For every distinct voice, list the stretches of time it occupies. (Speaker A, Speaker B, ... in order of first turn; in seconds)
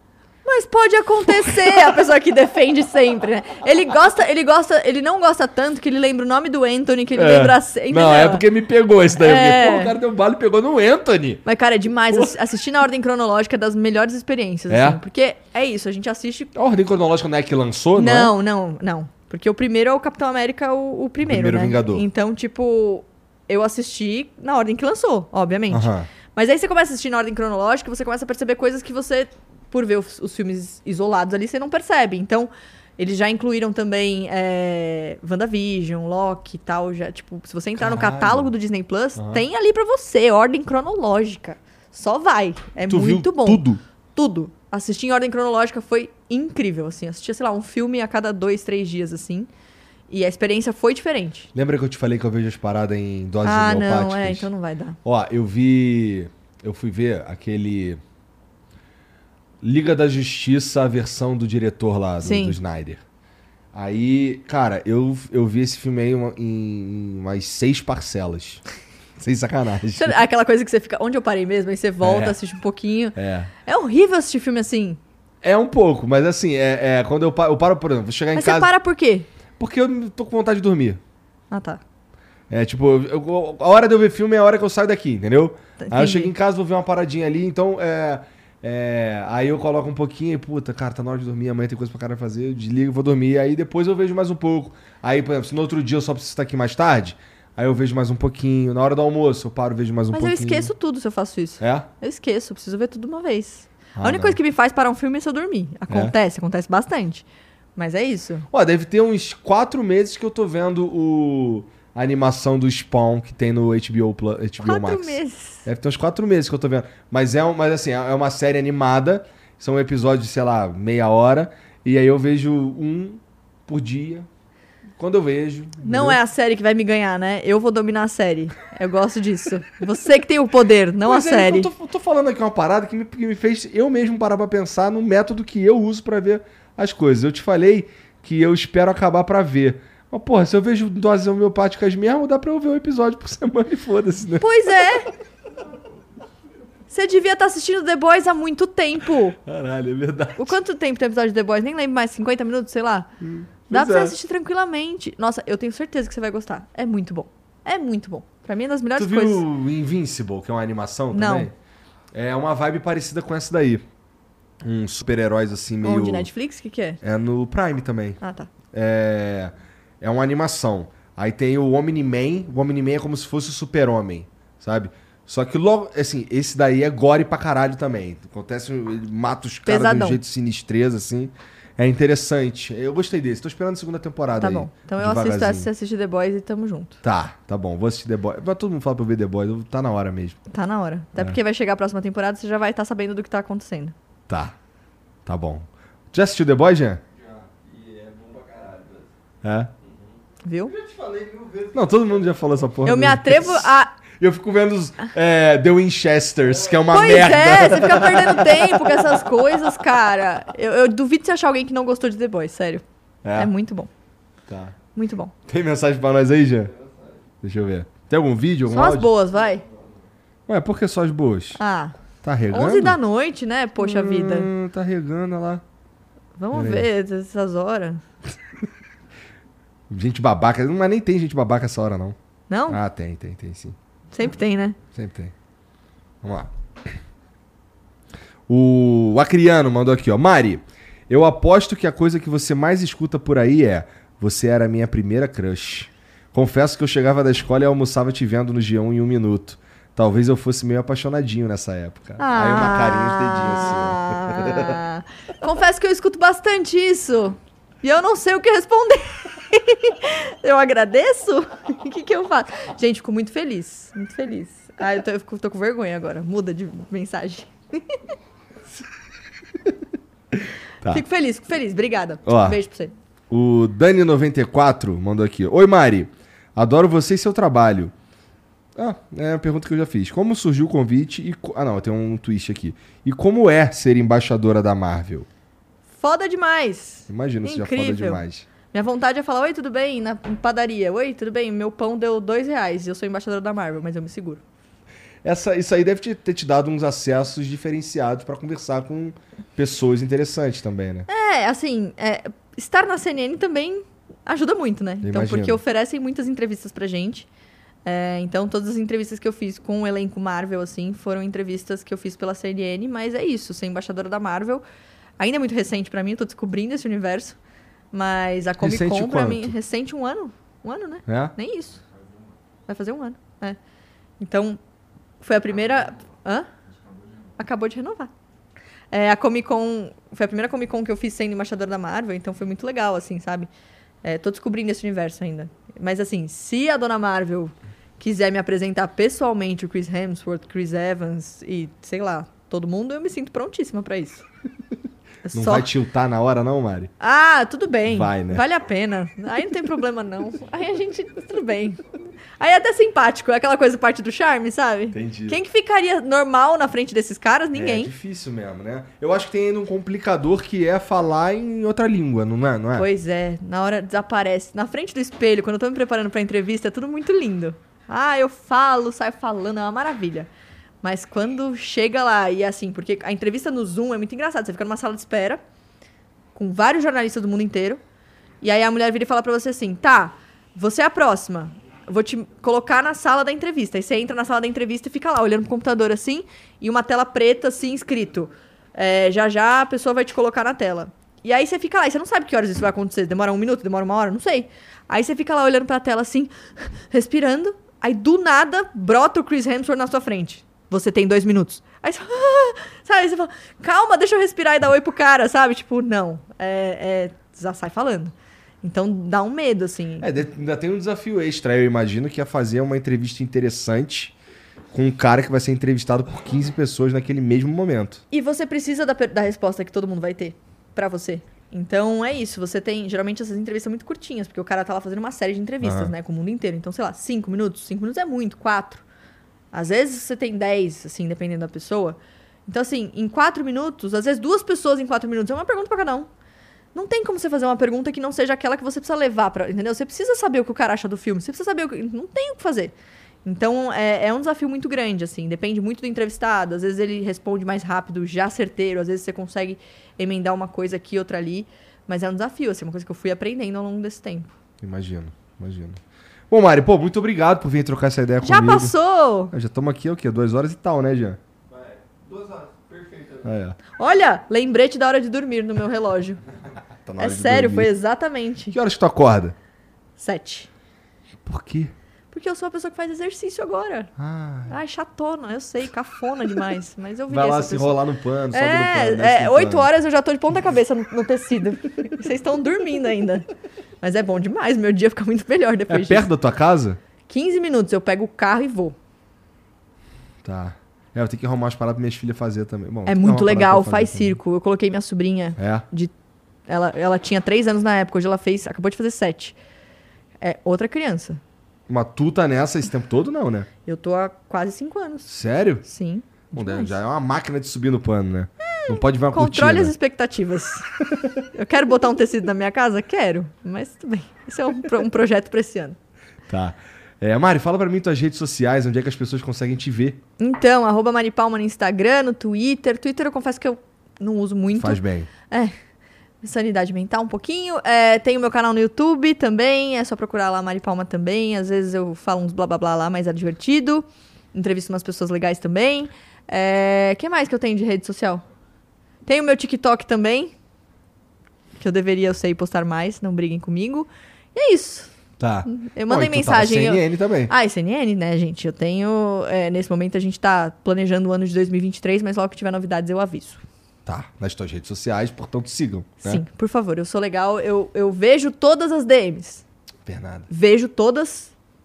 Speaker A: 0.5-8.4, 9.2-10.0, 11.4-16.5, 17.9-43.6, 44.1-49.5, 50.1-51.5, 53.4-55.0, 62.2-62.6, 69.9-75.0, 78.3-79.3, 81.5-81.8, 85.8-86.3, 100.1-107.2, 107.8-108.5, 114.6-115.7, 125.8-131.7, 144.4-145.1, 146.9-149.4, 150.4-153.1, 153.7-159.4, 161.1-161.5, 165.8-167.0, 168.2-168.5, 179.7-180.2, 184.4-187.0, 190.5-193.9, 200.4-200.8, 202.8-203.9, 206.9-212.8, 213.4-213.9, 214.9-215.3, 218.7-219.7, 221.6-222.0, 222.5-224.5, 226.4-228.1, 232.5-232.8, 234.1-234.8, 252.2-268.0, 270.9-272.9, 286.0-294.4, 301.1-307.3, 307.9-314.6, 315.2-317.4, 317.9-321.8, 322.7-323.6, 324.2-324.6, 325.2-326.5, 327.4-328.1, 328.9-333.5, 334.0-344.2, 345.2-345.7, 347.0-351.8, 352.4-357.9, 362.8-370.3, 370.8-375.4, 376.4-377.8, 378.4-410.1, 418.1-428.8, 429.5-436.1, 436.7-442.7, 443.2-454.3, 458.2-459.3, 463.8-466.2, 467.0-468.6, 470.0-470.5, 472.1-473.9, 474.5-477.8, 478.3-483.3, 483.8-486.1, 487.1-488.8, 492.9-495.9, 496.5-499.4, 500.2-501.2, 503.7-505.1, 505.6-506.8, 508.5-510.7, 511.3-515.8, 520.2-525.5, 526.2-538.2, 539.1-540.3, 541.6-544.9, 545.5-553.5, 556.0-559.4, 560.3-561.3
Speaker B: 1.3-1.6, 7.2-11.4, 12.1-12.4, 14.7-15.0, 16.5-18.3, 21.2-22.1, 25.7-26.1, 37.8-38.5, 39.2-39.4, 42.9-43.8, 51.5-54.5, 55.0-58.0, 59.6-63.0, 63.7-68.6, 69.2-70.2, 72.0-72.4, 73.2-73.5, 75.4-78.7, 79.6-81.0, 82.5-100.7, 101.6-101.9, 104.0-104.4, 108.5-124.3, 125.0-126.2, 131.1-144.5, 149.5-150.6, 153.2-154.2, 159.0-161.5, 162.1-163.9, 164.6-166.3, 167.0-168.2, 168.7-185.7, 187.0-190.4, 194.3-194.6, 195.3-197.0, 199.4-199.7, 201.7-209.1, 213.2-213.5, 214.5-214.8, 215.5-216.7, 217.4-219.1, 220.5-221.6, 222.2-223.0, 223.8-225.6, 226.5-226.9, 229.9-232.2, 232.7-233.8, 234.9-235.3, 236.2-236.5, 238.5-254.8, 272.3-272.6, 273.3-277.9, 278.8-285.3, 287.1-288.5, 295.2-301.1, 305.0-305.6, 318.6-319.6, 321.1-321.3, 345.3-346.9, 347.9-348.4, 354.9-355.4, 357.5-362.9, 410.0-414.1, 414.7-418.0, 425.6-425.9, 454.6-455.8, 456.3-458.7, 459.3-461.2, 463.2-463.6, 466.8-467.7, 468.5-469.4, 471.2-471.7, 474.0-474.6, 477.1-479.7, 485.7-486.8, 490.2-494.2, 495.4-495.6, 501.7-503.5, 505.1-505.6, 506.3-509.7, 516.3-520.0, 524.6-525.1, 545.2-547.3, 553.9-556.2, 559.9-560.3
Speaker C: 197.2-199.1, 200.7-202.4, 461.5-463.4